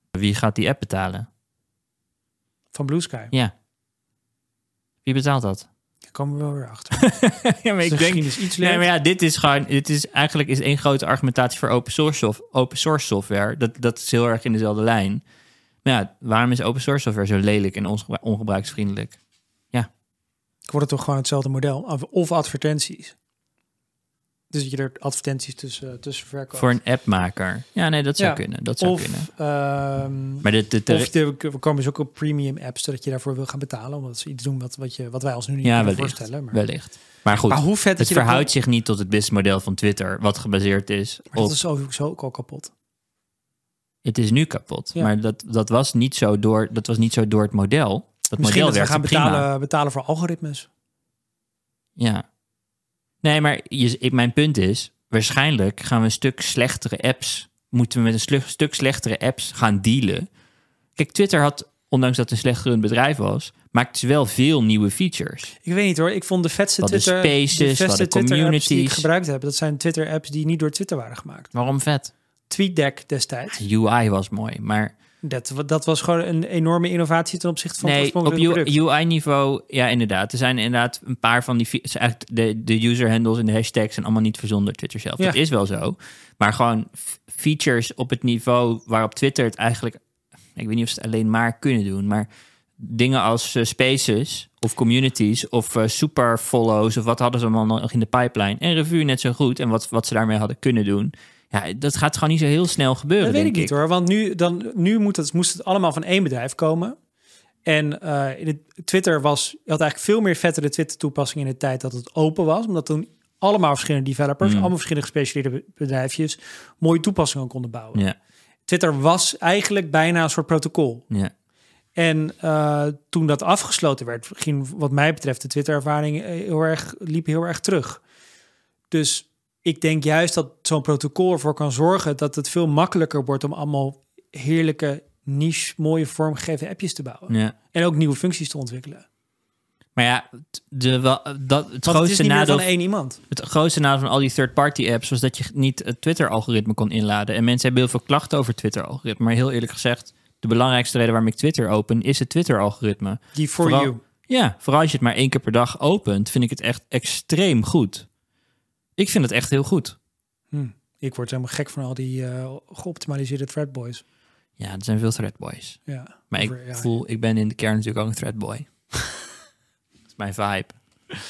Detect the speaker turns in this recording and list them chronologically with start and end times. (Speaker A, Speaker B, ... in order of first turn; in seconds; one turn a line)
Speaker A: 0.1-1.3
Speaker B: 2.7-3.3
Speaker A: 5.0-5.7
Speaker B: 6.1-7.0
Speaker A: 6.9-15.2
Speaker B: 7.8-8.9
Speaker A: 15.8-19.2
Speaker B: 20.7-23.1
Speaker B: 24.5-26.7
Speaker A: 26.5-29.3
Speaker B: 28.2-36.6
Speaker A: 30.4-31.1
Speaker A: 35.6-41.5
Speaker B: 37.5-38.5
Speaker B: 41.3-42.7
Speaker A: 44.0-49.5
Speaker B: 48.4-50.7
Speaker A: 52.0-52.2
Speaker A: 53.2-60.2
Speaker A: 61.0-65.5
Speaker B: 65.6-71.5
Speaker A: 66.8-69.0
Speaker A: 71.5-72.1
Speaker B: 72.5-73.6
Speaker A: 73.5-74.9
Speaker B: 75.2-78.7
Speaker A: 77.8-90.0
Speaker A: 90.5-92.3
Speaker A: 92.8-103.7
Speaker B: 103.2-107.0
Speaker B: 107.6-118.0
Speaker A: 114.4-114.7
Speaker B: 118.7-121.0
Speaker B: 122.0-128.0
Speaker B: 128.9-139.0
Speaker A: 137.3-137.5
Speaker A: 139.9-142.7
Speaker B: 141.8-143.2
Speaker A: 143.3-158.1
Speaker B: 153.3-154.0
Speaker A: 159.0-159.9
Speaker B: 160.5-164.0
Speaker A: 164.6-165.8
Speaker B: 165.9-166.9
Speaker A: 166.3-169.1
Speaker A: 170.1-170.7